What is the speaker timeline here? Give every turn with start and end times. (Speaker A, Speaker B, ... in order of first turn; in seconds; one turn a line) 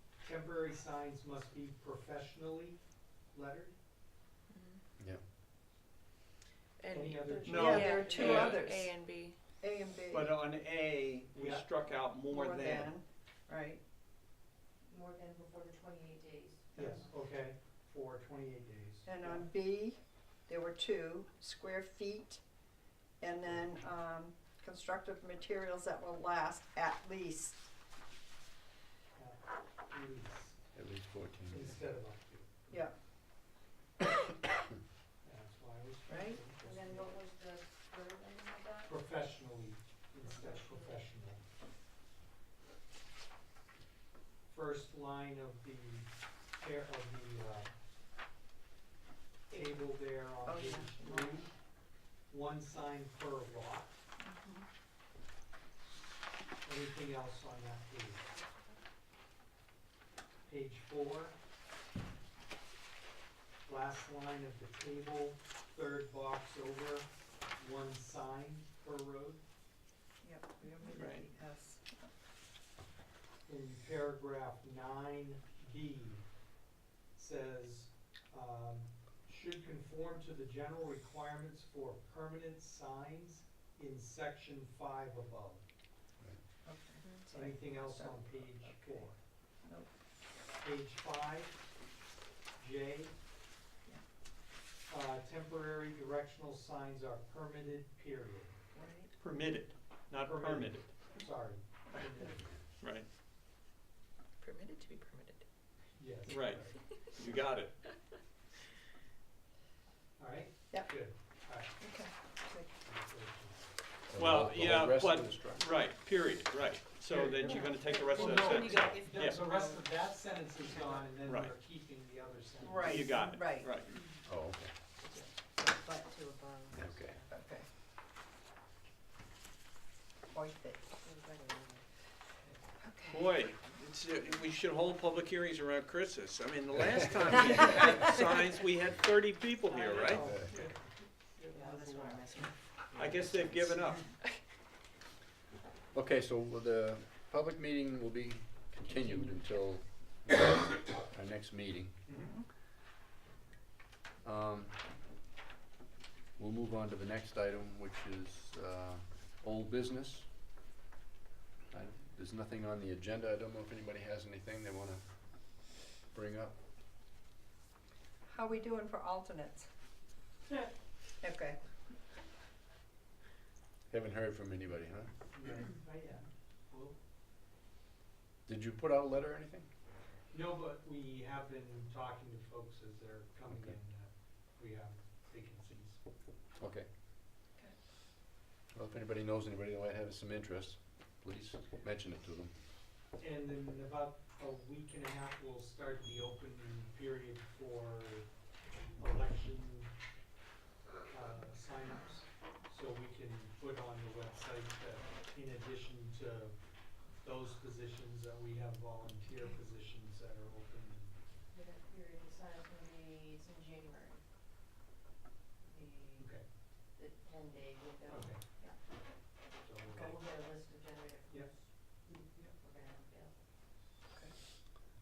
Speaker A: 0.2-3.7
Speaker B: 4.5-4.8
Speaker B: 6.8-9.4
Speaker A: 6.9-8.1
Speaker C: 7.4-7.7
Speaker D: 7.4-8.7
Speaker E: 7.5-10.3
Speaker D: 10.1-12.9
Speaker A: 11.3-11.6
Speaker E: 12.3-13.8
Speaker C: 14.9-16.8
Speaker E: 16.7-17.0
Speaker A: 16.8-19.5
Speaker E: 19.1-22.4
Speaker E: 23.2-27.7
Speaker A: 29.2-30.6
Speaker F: 30.7-31.7
Speaker A: 31.5-32.8
Speaker A: 35.2-37.1
Speaker E: 36.1-36.4
Speaker C: 36.6-38.9
Speaker A: 38.8-41.4
Speaker C: 40.2-40.8
Speaker A: 44.5-47.7
Speaker A: 49.5-51.5
Speaker E: 50.4-51.4
Speaker A: 52.3-54.0
Speaker E: 54.2-54.6
Speaker A: 56.6-58.3
Speaker A: 60.5-61.4
Speaker A: 63.6-67.1
Speaker A: 67.6-69.4
Speaker E: 70.2-72.0
Speaker D: 70.9-71.2
Speaker A: 73.5-76.2
Speaker A: 77.1-85.6
Speaker E: 86.6-89.1
Speaker B: 87.0-87.3
Speaker A: 87.3-89.2
Speaker E: 89.6-89.9
Speaker A: 90.6-91.6
Speaker A: 92.6-93.2
Speaker A: 94.9-98.6
Speaker E: 98.7-99.1
Speaker D: 99.2-100.9
Speaker A: 100.1-102.5
Speaker D: 102.8-103.1
Speaker B: 104.4-105.4
Speaker A: 105.9-107.1
Speaker D: 106.3-106.6
Speaker B: 106.7-107.3
Speaker D: 107.2-107.7
Speaker A: 110.2-111.7
Speaker E: 111.8-112.8
Speaker A: 112.8-113.7
Speaker F: 114.1-115.6
Speaker D: 114.1-119.4
Speaker A: 117.1-123.1
Speaker C: 118.0-119.8
Speaker D: 121.2-121.5
Speaker E: 122.6-123.7
Speaker D: 122.8-123.9
Speaker F: 124.2-124.7
Speaker E: 125.0-126.3
Speaker C: 126.2-127.2
Speaker F: 126.7-127.2
Speaker E: 127.3-127.7
Speaker E: 130.3-131.0
Speaker C: 131.0-131.8
Speaker E: 132.8-133.2
Speaker D: 133.1-140.7
Speaker A: 139.7-140.9
Speaker F: 140.1-140.7
Speaker C: 141.4-142.5
Speaker D: 142.9-144.1
Speaker F: 145.9-152.0
Speaker F: 154.2-154.8
Speaker F: 156.4-160.3
Speaker F: 161.7-166.6
Speaker E: 168.3-169.7
Speaker E: 171.2-171.6
Speaker F: 173.9-175.1
Speaker A: 175.3-177.0
Speaker F: 178.5-179.7
Speaker A: 180.3-186.0
Speaker F: 183.5-183.8
Speaker F: 186.6-186.9
Speaker F: 188.7-192.5
Speaker A: 193.2-198.3
Speaker A: 199.0-199.9
Speaker A: 201.1-206.6
Speaker A: 207.2-211.1
Speaker C: 211.5-214.2
Speaker C: 215.7-216.4
Speaker A: 216.2-216.5
Speaker C: 216.9-218.8
Speaker A: 218.1-218.4
Speaker A: 219.6-220.2
Speaker C: 220.0-221.6
Speaker C: 222.6-223.4